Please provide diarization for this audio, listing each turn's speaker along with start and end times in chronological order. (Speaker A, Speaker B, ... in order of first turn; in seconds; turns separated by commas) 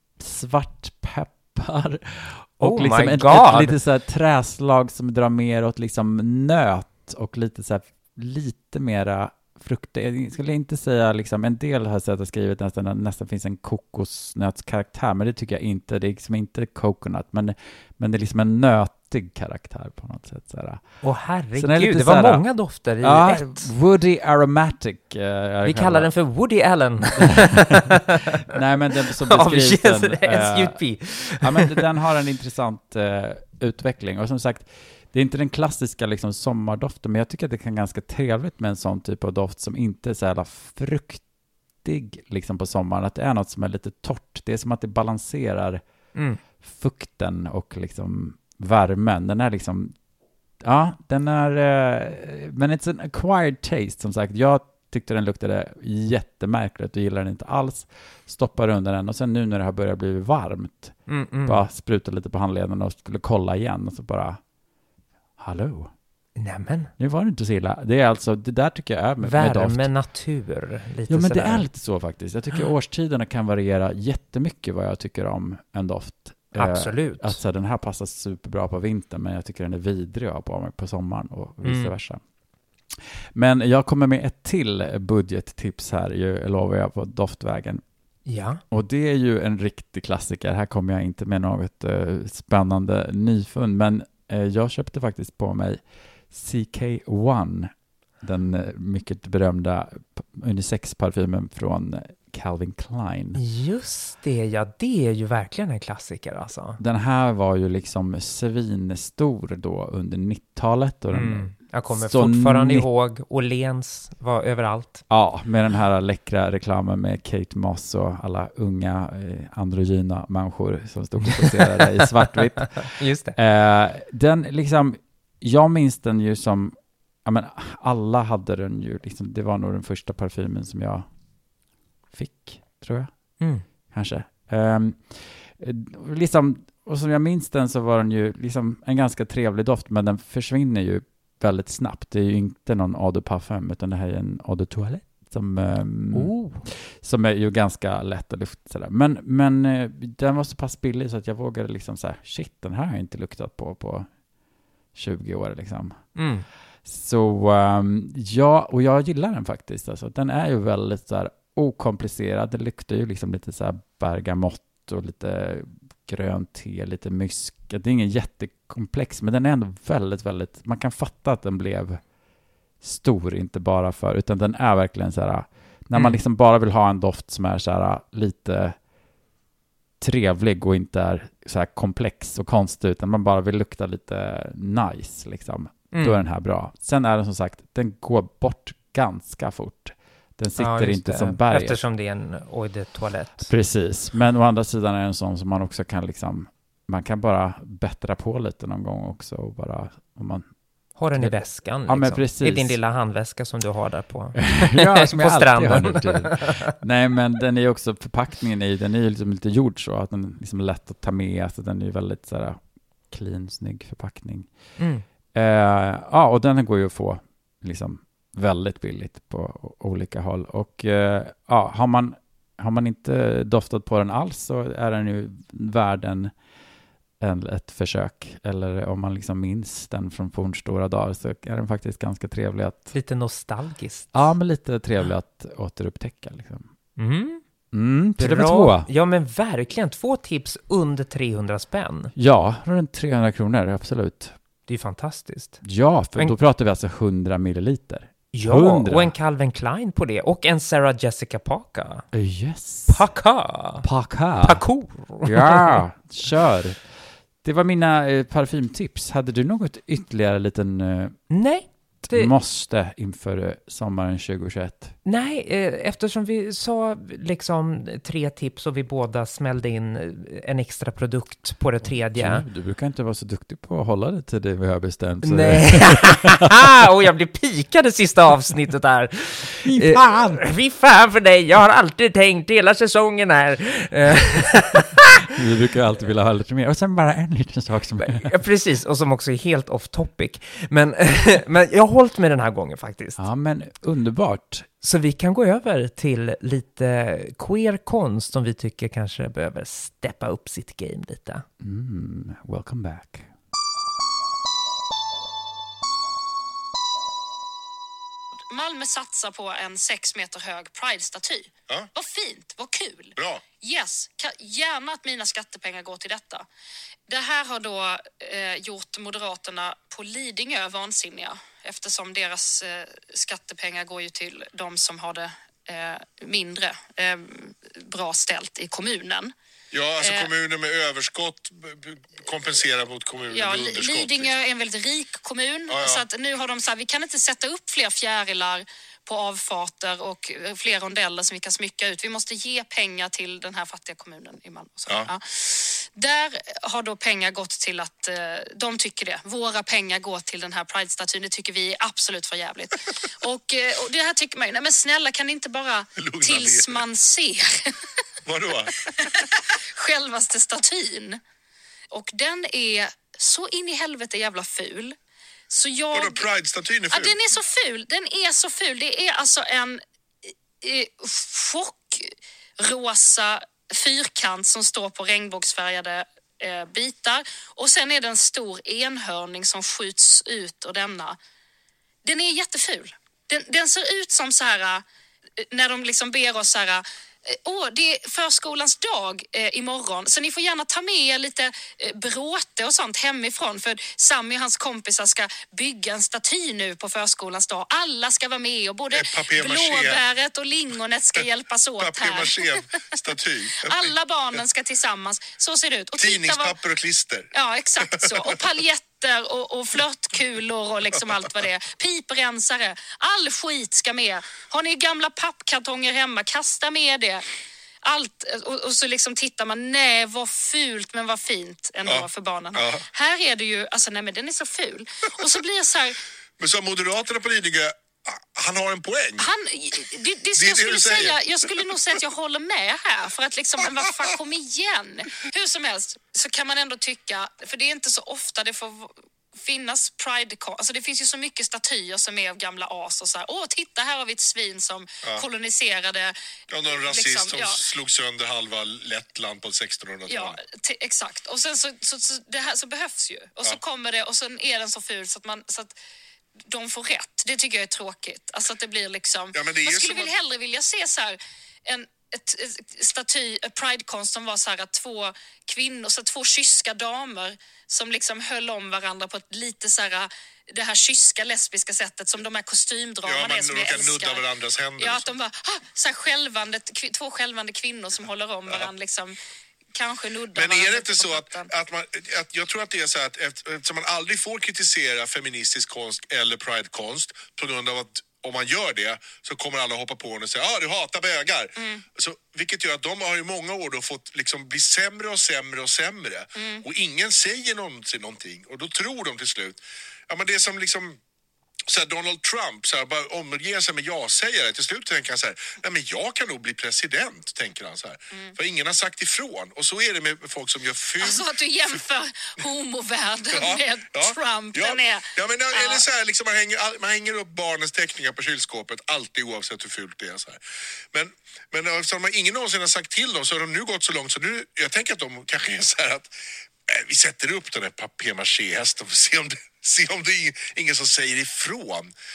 Speaker A: 0.2-21.0, Speaker B: 2.6-3.8, Speaker B: 21.0-23.7, Speaker A: 21.6-22.4, Speaker A: 23.0-26.1, Speaker B: 25.6-28.4, Speaker A: 28.5-41.2, Speaker B: 29.1-31.8, Speaker A: 41.8-45.8, Speaker B: 46.1-46.4, Speaker A: 46.6-49.9, Speaker A: 50.6-64.4, Speaker B: 61.1-61.6, Speaker A: 65.4-65.9, Speaker B: 66.4-66.9, Speaker A: 67.0-69.9, Speaker B: 69.2-71.7, Speaker A: 71.1-82.2, Speaker B: 76.5-77.4, Speaker B: 81.6-81.9, Speaker A: 83.3-87.8, Speaker B: 88.2-88.6, Speaker A: 88.7-103.4, Speaker B: 103.3-106.8, Speaker A: 106.8-112.9, Speaker B: 111.1-115.0, Speaker A: 115.1-131.1, Speaker B: 121.3-123.3, Speaker A: 132.1-133.1, Speaker B: 133.4-133.6, Speaker A: 133.9-154.1, Speaker B: 146.1-146.7, Speaker A: 154.9-156.1, Speaker B: 156.2-156.5, Speaker A: 156.8-172.0, Speaker A: 172.8-178.8, Speaker A: 180.0-191.8, Speaker B: 185.9-186.2, Speaker B: 190.6-193.5, Speaker A: 193.4-200.5, Speaker B: 201.0-206.7, Speaker A: 201.1-202.8, Speaker A: 204.4-214.5, Speaker B: 214.8-215.0, Speaker A: 215.3-226.3, Speaker A: 227.2-232.9, Speaker B: 232.9-234.3, Speaker A: 234.1-236.7, Speaker B: 237.0-237.4, Speaker A: 237.7-238.9, Speaker B: 238.2-242.1, Speaker A: 242.1-244.3, Speaker B: 244.7-246.3, Speaker A: 245.6-249.1, Speaker B: 248.3-252.1, Speaker A: 252.1-253.0, Speaker B: 252.9-253.9, Speaker A: 253.8-261.3, Speaker B: 254.4-255.8, Speaker B: 261.3-262.3, Speaker A: 262.0-264.9, Speaker B: 265.0-272.4, Speaker A: 271.8-276.3, Speaker B: 275.2-285.1, Speaker A: 279.6-280.4, Speaker A: 285.3-288.3, Speaker B: 288.0-293.2, Speaker A: 293.2-294.7, Speaker B: 294.8-301.4, Speaker A: 301.6-303.3, Speaker C: 308.5-316.4, Speaker D: 313.2-313.4, Speaker C: 317.1-329.3, Speaker D: 329.7-334.3, Speaker C: 330.0-330.3, Speaker C: 333.3-357.8, Speaker D: 335.7-336.0, Speaker D: 356.0-356.8, Speaker D: 358.2-359.2, Speaker C: 359.0-361.2, Speaker C: 361.9-364.9, Speaker C: 365.5-366.2, Speaker D: 365.9-367.2, Speaker C: 366.9-381.2, Speaker C: 382.0-384.8, Speaker C: 385.4-402.6, Speaker D: 398.9-400.0, Speaker D: 401.8-403.9, Speaker C: 403.6-406.5, Speaker D: 406.0-407.3, Speaker C: 407.3-417.2, Speaker D: 407.9-408.2, Speaker C: 417.8-426.0, Speaker D: 421.9-422.8, Speaker D: 426.4-429.3, Speaker C: 429.2-446.1, Speaker D: 430.4-431.2, Speaker D: 446.5-450.4, Speaker C: 446.7-447.6, Speaker C: 450.1-455.7, Speaker C: 456.5-474.2, Speaker D: 459.3-460.1, Speaker D: 473.1-475.1, Speaker C: 474.8-479.1, Speaker C: 479.7-481.5, Speaker D: 480.3-501.0, Speaker C: 491.6-491.8, Speaker C: 496.4-496.6, Speaker D: 501.7-511.2, Speaker C: 511.0-515.8, Speaker D: 513.3-520.4, Speaker D: 520.9-526.1, Speaker D: 526.7-531.9